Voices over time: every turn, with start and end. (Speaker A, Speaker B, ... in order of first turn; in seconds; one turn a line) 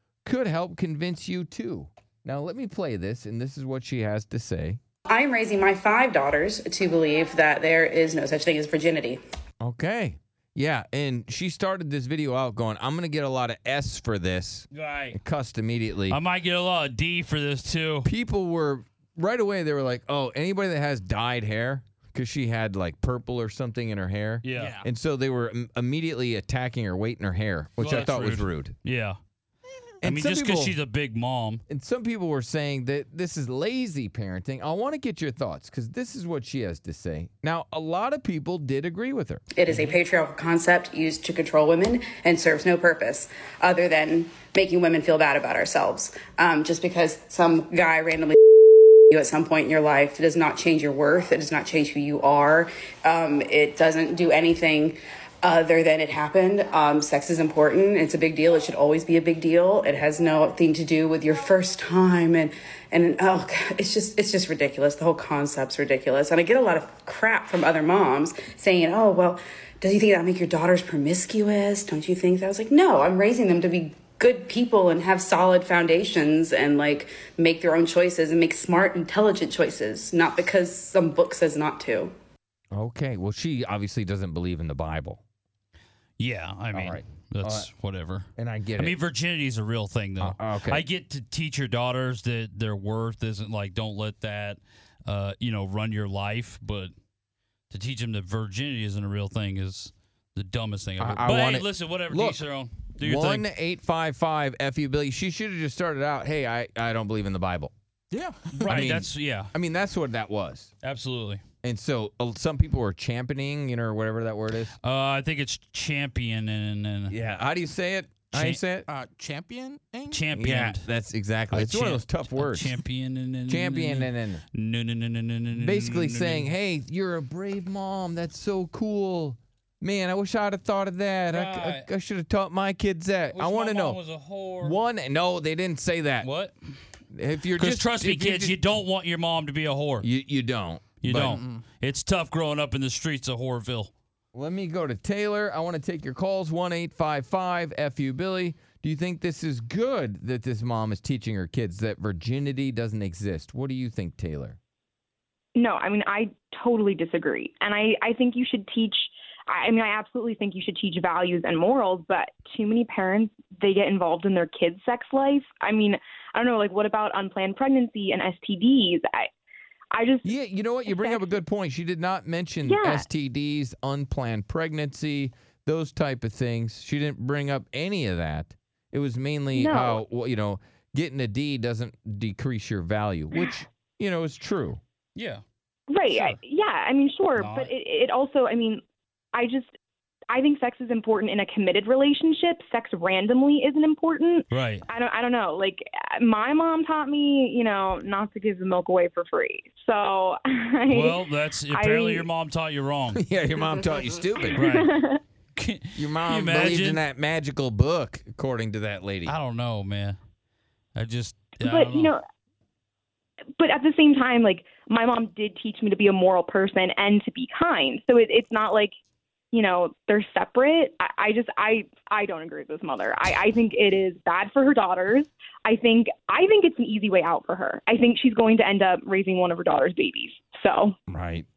Speaker A: 0.2-4.8
Speaker B: 5.1-9.2
Speaker A: 9.6-16.2
Speaker C: 14.7-15.2
Speaker C: 16.1-18.1
Speaker A: 18.0-28.8
Speaker C: 24.4-24.8
Speaker D: 24.5-24.9
Speaker C: 27.8-29.2
Speaker A: 30.0-30.8
Speaker C: 30.0-31.6
Speaker A: 31.7-39.8
Speaker B: 39.5-48.4
Speaker B: 49.1-82.1
Speaker A: 82.7-85.2
Speaker C: 86.2-96.9
Speaker A: 86.7-87.7
Speaker A: 88.3-89.0
Speaker A: 90.2-90.8
Speaker C: 97.7-103.5
Speaker A: 101.0-102.4
Speaker A: 103.0-107.7
Speaker D: 108.1-108.8
Speaker C: 108.6-109.5
Speaker A: 108.7-110.7
Speaker C: 110.8-111.4
Speaker A: 111.6-114.7
Speaker C: 114.8-117.1
Speaker A: 117.1-118.8
Speaker C: 118.3-118.6
Speaker D: 118.9-120.2
Speaker C: 120.1-120.9
Speaker A: 120.3-122.8
Speaker C: 121.5-126.5
Speaker A: 123.5-124.4
Speaker A: 125.5-134.0
Speaker C: 131.3-131.9
Speaker C: 133.3-134.8
Speaker A: 134.6-136.3
Speaker C: 136.2-136.5
Speaker A: 137.1-138.7
Speaker C: 137.5-140.1
Speaker A: 140.0-141.4
Speaker C: 141.0-143.9
Speaker D: 141.2-141.6
Speaker A: 144.3-154.6
Speaker E: 155.5-169.3
Speaker E: 169.9-170.3
Speaker A: 170.2-184.8
Speaker E: 170.9-171.2
Speaker E: 172.6-173.0
Speaker E: 179.5-180.0
Speaker C: 185.2-185.4
Speaker E: 185.9-188.8
Speaker C: 186.0-186.4
Speaker C: 187.3-187.7
Speaker E: 189.3-189.7
Speaker E: 190.3-202.3
Speaker C: 194.5-194.8
Speaker C: 200.9-203.2
Speaker A: 203.1-204.6
Speaker C: 204.6-204.9
Speaker E: 204.6-205.2
Speaker C: 205.6-207.0
Speaker A: 205.9-209.3
Speaker C: 209.2-210.2
Speaker C: 210.9-212.1
Speaker E: 211.6-212.2
Speaker E: 213.6-218.9
Speaker E: 219.5-230.9
Speaker A: 231.1-231.4